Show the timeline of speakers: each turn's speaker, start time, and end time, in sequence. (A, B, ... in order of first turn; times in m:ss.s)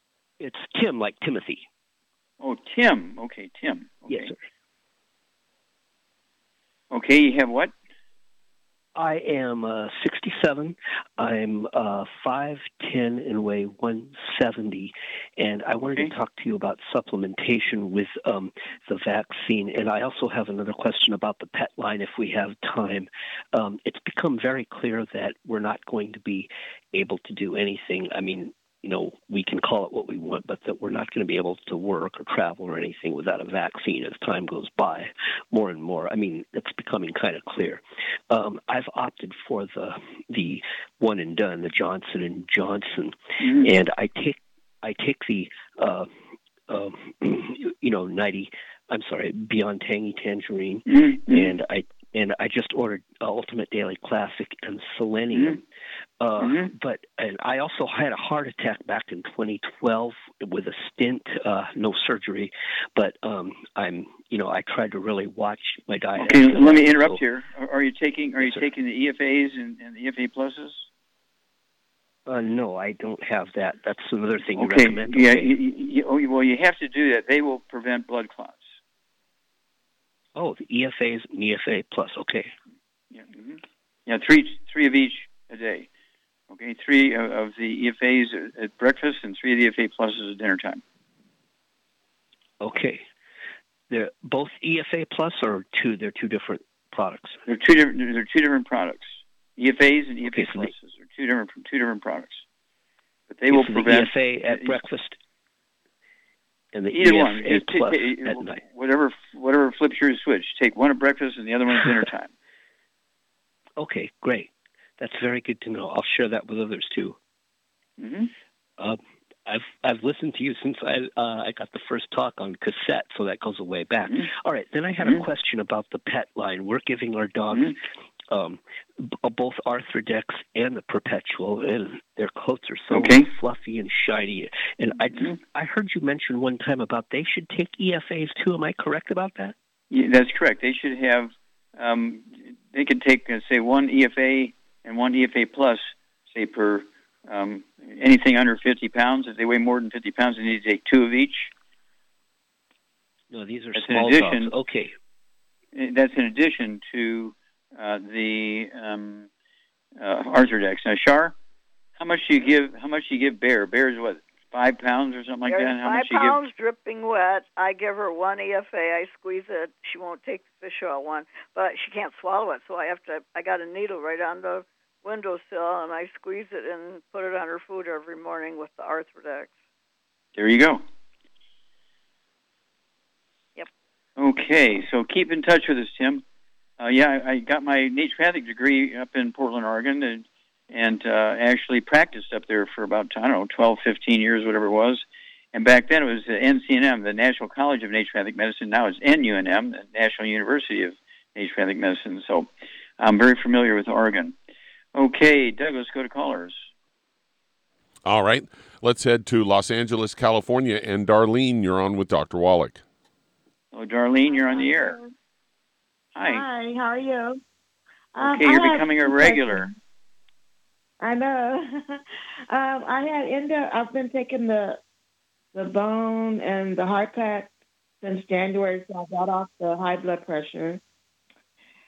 0:00.4-0:01.6 A
0:02.4-0:04.3 B
0:04.1-0:04.3 A
0:06.9-0:07.7 B
0:08.9-0:46.1 A
0:43.4-0:43.7 B
0:46.7-0:55.6 A
0:50.9-0:51.5 B
0:56.2-1:07.2 A
0:56.4-0:56.7 B
1:06.2-1:10.9 B
1:08.4-1:08.7 A
1:12.2-1:15.5 A
1:14.6-1:18.6 B
1:20.4-1:22.5 A
1:23.1-1:25.9 B
1:26.5-1:30.8 B
1:32.6-1:33.0 A
1:33.9-1:37.4 A
1:37.5-1:42.4 B
1:40.2-1:40.7 A
1:43.3-1:44.8 B
1:43.5-1:45.2 A
1:46.7-1:48.6 A
1:46.9-1:52.3 B
1:53.8-1:57.2 A
1:58.0-1:58.3 B
1:58.8-2:07.8 A
2:08.3-2:19.5 A
2:12.9-2:13.3 B
2:19.9-2:31.5 B
2:33.3-2:34.9 A
2:33.7-2:34.5 B
2:35.7-2:39.3 B
2:40.0-2:41.3 B
2:42.0-2:46.4 B
2:45.5-2:59.5 C
3:00.4-3:00.8 B
3:04.2-3:06.2 B
3:06.8-3:24.3 B
3:24.9-3:26.6 B
3:28.0-3:32.8 D
3:33.7-3:35.0 B
3:34.5-3:35.1 E
3:36.2-3:36.4 B
3:36.2-3:37.4 E
3:38.1-3:39.7 E
3:38.2-3:39.7 B
3:41.0-3:44.8 E
3:45.5-3:47.5 E
3:48.0-3:50.8 E